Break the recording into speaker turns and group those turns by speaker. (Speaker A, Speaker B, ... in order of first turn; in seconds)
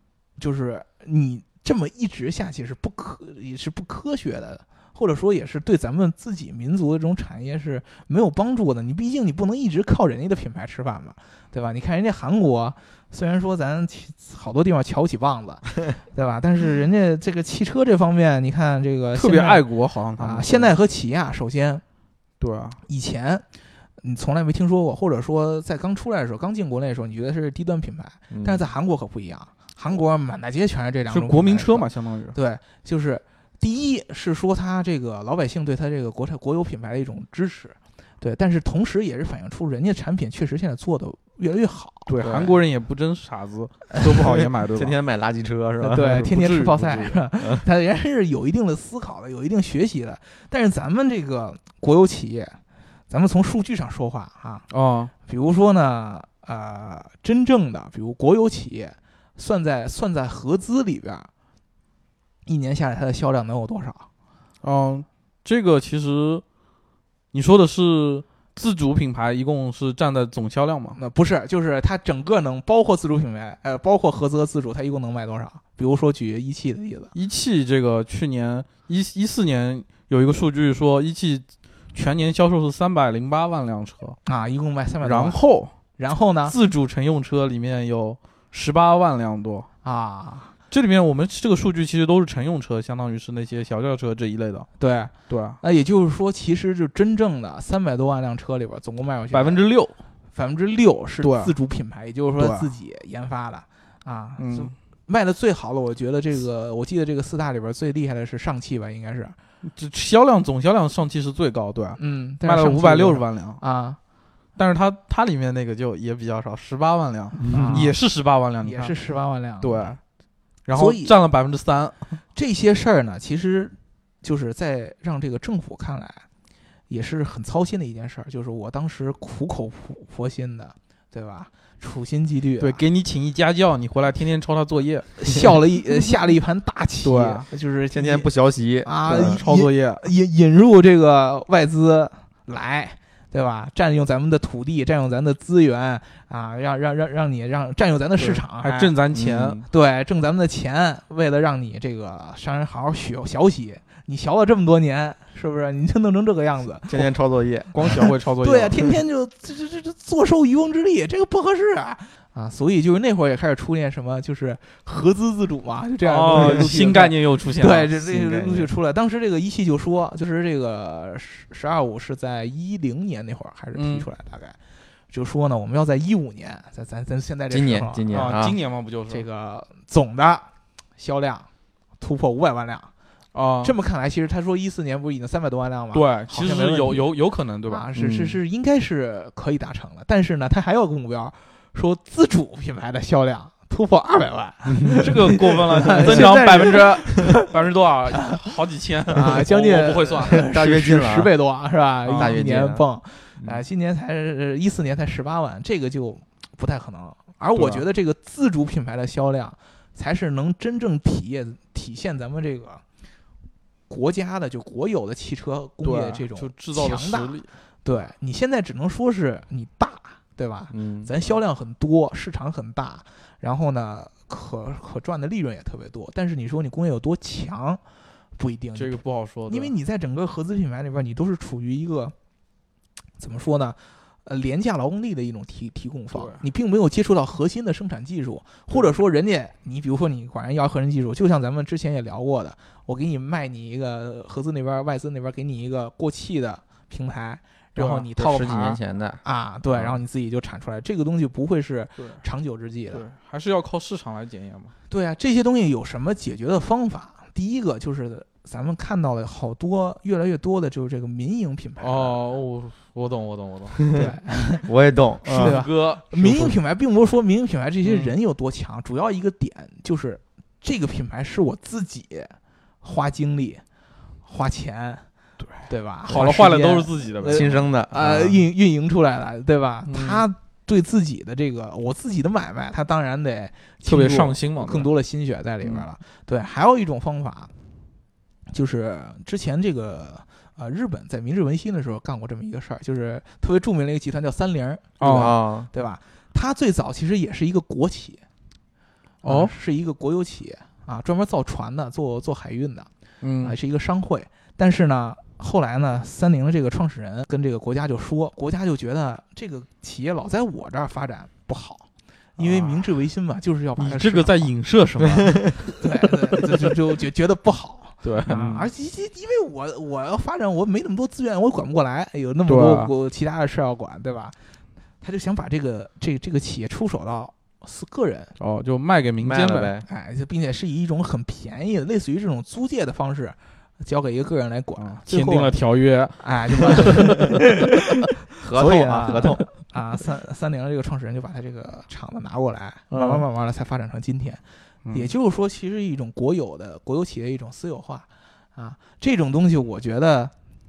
Speaker A: 0.4-19.6, 20.2-21.8, 22.9-23.4, 24.0-42.1, 45.8-52.6, 53.1-54.6, 55.2-61.3, 62.5-64.0, 71.0-77.1, 84.2-85.4, 86.0-86.5, 89.8-90.5, 94.8-99.6, 100.3-109.3, 112.0-114.0, 117.4-117.9, 118.6-119.9, 120.7-121.1, 122.3-126.2, 126.9-132.8, 135.2-138.3, 138.8-148.9, 149.7-157.1, 158.4-174.6, 175.1-178.4, 179.1-180.4, 181.0-181.5, 182.0-182.9, 183.6-187.1, 187.7-197.5, 199.1-212.8, 213.9-227.8, 228.4-232.1, 233.2-253.0, 254.9-262.1, 263.9-264.6, 265.4-273.6, 274.2-275.0, 275.6-287.5, 288.5-298.2, 299.2-302.9, 303.4-314.5, 315.8-324.3, 325.0-328.3, 329.9-335.6, 336.2-344.4, 344.9-350.3
Speaker B: 19.1-20.7, 22.4-22.8, 31.1-32.3, 42.1-45.0, 46.0-47.2, 54.7-55.1, 64.6-66.4, 67.3-71.0, 77.1-84.2, 85.0-85.7, 86.5-89.7, 90.7-94.7, 95.3-95.6, 99.3-100.0, 101.2-101.5, 102.4-102.7, 104.4-104.7, 109.7-113.6, 114.5-118.9, 119.6-120.0, 120.7-122.1, 132.6-135.2, 137.0-137.5, 139.1-140.0, 148.2-149.6, 157.7-158.8, 166.0-167.9, 173.7-174.1, 178.1-179.2, 183.3-183.7, 185.9-187.9, 194.9-200.4, 202.0-202.4, 207.5-207.8, 215.8-217.5, 228.8-229.7, 236.1-236.4, 247.8-248.1, 252.0-252.2, 252.9-254.7, 261.8-263.9, 265.2-266.6, 267.8-268.1, 276.1-277.6, 279.9-280.2, 283.8-284.9, 295.0-295.3, 299.2-299.5, 303.2-303.6, 312.4-312.9, 313.8-315.4, 318.0-318.7, 322.4-322.9, 328.4-329.7, 334.8-337.4, 342.9-343.2, 344.8-345.1
Speaker C: 28.3-28.7, 42.2-42.5, 44.2-46.2, 117.4-117.9, 137.9-139.4, 149.1-149.6, 156.9-158.1, 168.0-168.7, 177.5-178.6, 187.9-188.4, 194.8-195.0, 195.9-196.4, 200.3-201.3, 202.2-202.8, 220.7-221.1, 248.1-249.2, 264.6-265.6, 277.2-278.4, 295.1-295.7, 329.2-329.9, 338.4-339.4